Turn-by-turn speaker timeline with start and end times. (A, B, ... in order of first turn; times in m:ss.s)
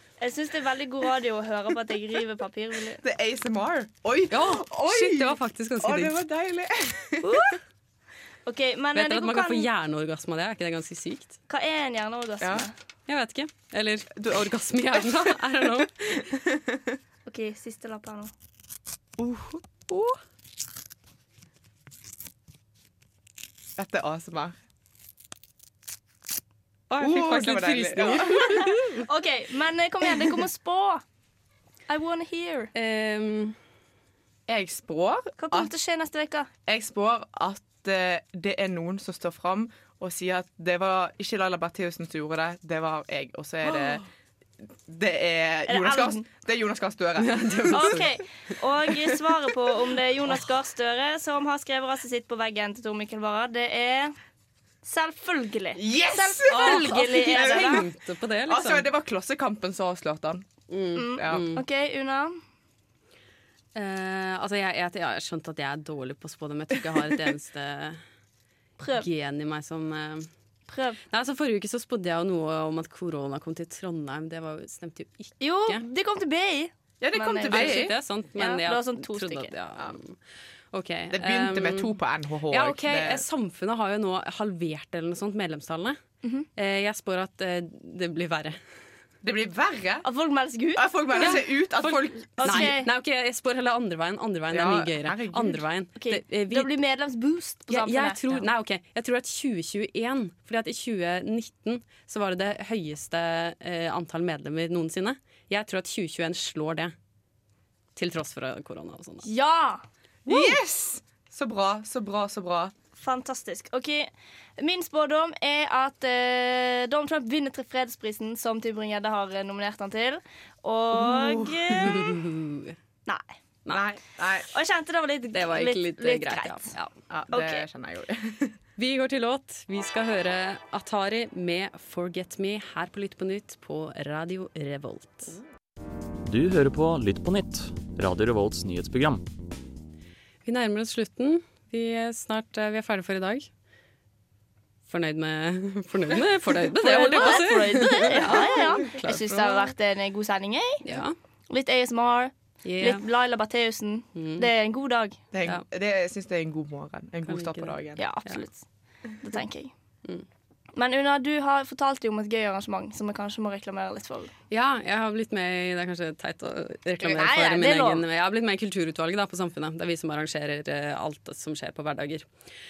0:00.2-0:03.0 A
0:03.0-0:07.5 B
0:04.3-0:06.2 C
0:07.2-0:07.6 A
0:08.4-0:09.7 A
0:08.9-0:11.4 C
0:11.5-0:12.7 A
0:12.4-0:12.7 B
0:13.1-0:15.9 C
0:14.2-0:15.4 B
0:16.0-0:17.0 B
0:17.2-0:18.3 A
0:19.2-0:20.2 B
0:23.8-0:24.6 B
0:26.9-0:29.0 C
0:27.0-0:28.8 B
0:28.9-0:31.0 A
0:31.9-0:32.7 A
0:32.7-0:33.6 C
0:34.5-0:35.7 B
0:35.4-0:36.5 A
0:36.7-0:44.0 B
0:43.6-0:44.0 C
0:44.6-0:48.0 B
0:45.7-0:46.2 A
0:47.2-0:48.1 C
0:47.7-0:54.1 A
0:54.8-0:57.9 A
0:55.7-0:57.9 B
0:56.5-0:58.9 C
0:58.5-1:00.5 B
1:00.7-1:01.6 C
1:01.0-1:02.4 A
1:01.2-1:01.5 B
1:03.7-1:08.0 C
1:08.8-1:09.0 A
1:08.9-1:10.3 C
1:10.7-1:11.0 A
1:11.1-1:15.8 C
1:15.4-1:19.5 A
1:17.0-1:18.0 B
1:17.5-1:20.2 C
1:20.7-1:22.0 C
1:21.1-1:23.2 B
1:22.5-1:26.0 C
1:26.6-1:28.6 C
1:29.2-1:30.0 B
1:30.0-1:31.4 A
1:30.8-1:32.8 B
1:31.2-1:36.7 C
1:32.4-1:32.9 A
1:34.5-1:35.6 B
1:36.0-1:38.5 A
1:37.7-1:46.9 C
1:48.0-1:49.2 C
1:49.2-1:49.8 A
1:50.2-1:52.7 B
1:53.0-2:02.2 A
2:00.9-2:02.1 B
2:01.8-2:02.8 C
2:03.0-2:03.3 A
2:03.7-2:04.5 B
2:04.5-2:06.7 A
2:05.3-2:06.9 C
2:07.1-2:08.6 B
2:07.3-2:07.6 A
2:08.8-2:15.4 C
2:16.2-2:19.2 D
2:20.4-2:23.5 C
2:24.9-2:29.7 C
2:26.8-2:31.0 A
2:30.8-2:31.1 C
2:31.5-2:35.2 A
2:32.6-2:33.0 C
2:34.1-2:34.5 C
2:35.3-2:38.0 B
2:37.3-2:38.4 C
2:38.0-2:38.6 A
2:39.2-2:39.7 A
2:40.7-2:44.3 A
2:44.5-2:52.2 C
2:47.0-2:48.0 A